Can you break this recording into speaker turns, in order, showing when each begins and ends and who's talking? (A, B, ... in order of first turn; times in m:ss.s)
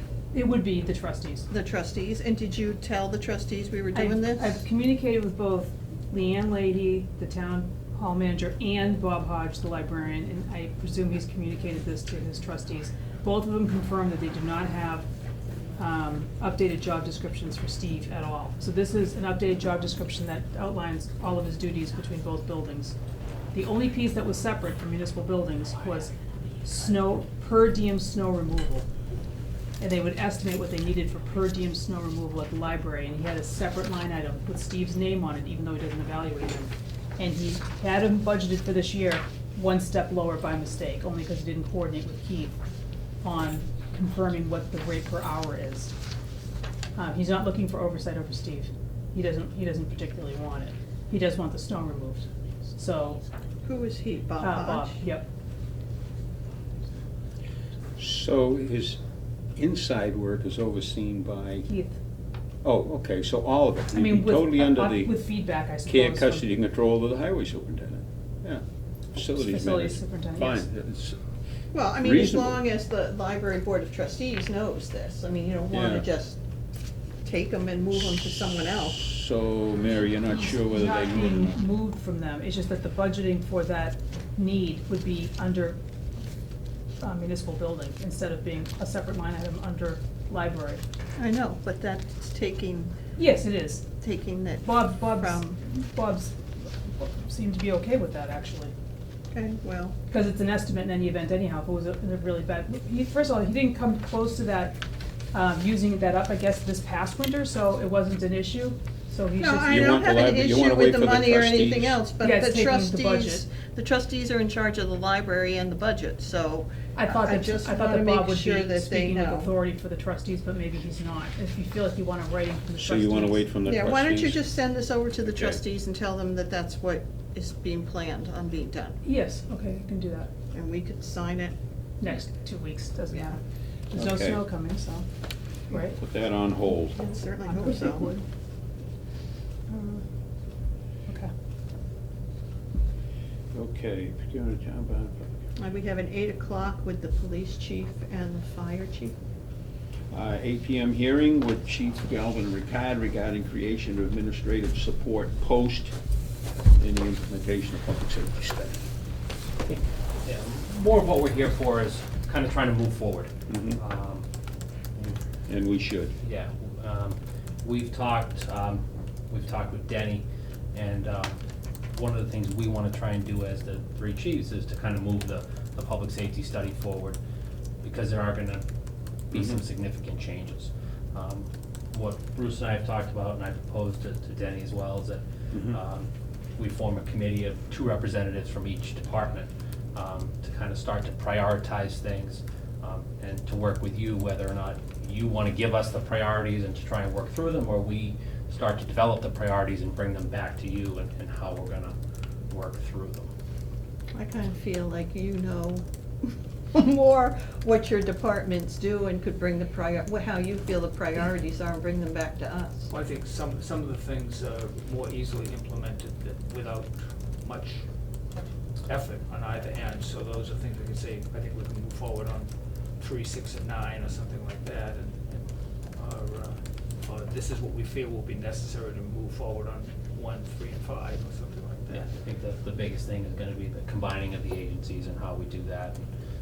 0:00.3-0:01.5 A
0:01.5-0:04.6 B
0:03.9-0:15.1 A
0:15.8-0:22.9 A
0:23.5-0:28.9 A
0:29.8-0:42.6 A
0:43.2-0:45.9 A
0:47.0-0:53.2 A
0:53.6-0:55.0 B
0:54.4-0:55.3 A
0:58.0-0:59.0 C
0:59.6-1:01.7 C
1:01.6-1:02.0 A
1:02.6-1:05.2 C
1:03.9-1:06.5 A
1:05.8-1:11.2 C
1:09.2-1:10.6 A
1:11.7-1:16.4 B
1:12.0-1:12.6 C
1:15.7-1:16.0 C
1:17.2-1:19.1 B
1:19.0-1:21.6 C
1:20.3-1:25.8 A
1:27.0-1:30.8 A
1:31.2-1:32.9 B
1:33.2-1:33.9 A
1:34.0-1:35.6 B
1:34.6-1:38.7 A
1:39.3-1:40.0 B
1:40.1-1:44.8 A
1:45.3-1:50.0 A
1:49.4-1:59.5 B
1:49.6-1:52.0 C
1:52.2-1:53.4 A
1:57.0-2:03.5 A
2:02.8-2:04.4 C
2:03.6-2:09.0 B
2:05.3-2:05.6 C
2:09.0-2:10.3 A
2:10.5-2:11.6 B
2:12.0-2:13.4 A
2:13.9-2:15.1 A
2:13.9-2:14.4 C
2:15.7-2:16.0 A
2:15.9-2:17.1 C
2:17.0-2:18.2 B
2:17.4-2:18.2 A
2:19.7-2:20.0 A
2:23.5-2:25.4 C
2:25.6-2:29.1 B
2:30.1-2:36.0 C
2:36.8-2:38.8 C
2:39.6-2:44.3 D
2:43.5-2:43.8 C
2:45.5-2:46.1 C
2:46.2-2:51.4 D
2:51.9-2:57.2 D
2:57.8-2:58.6 D
2:59.3-3:22.0 D
2:59.3-2:59.6 C
3:05.5-3:05.8 C
3:22.5-3:23.3 D
3:24.1-3:32.9 B
3:32.9-3:37.8 E
3:38.8-3:52.1 E
3:51.9-3:56.0 D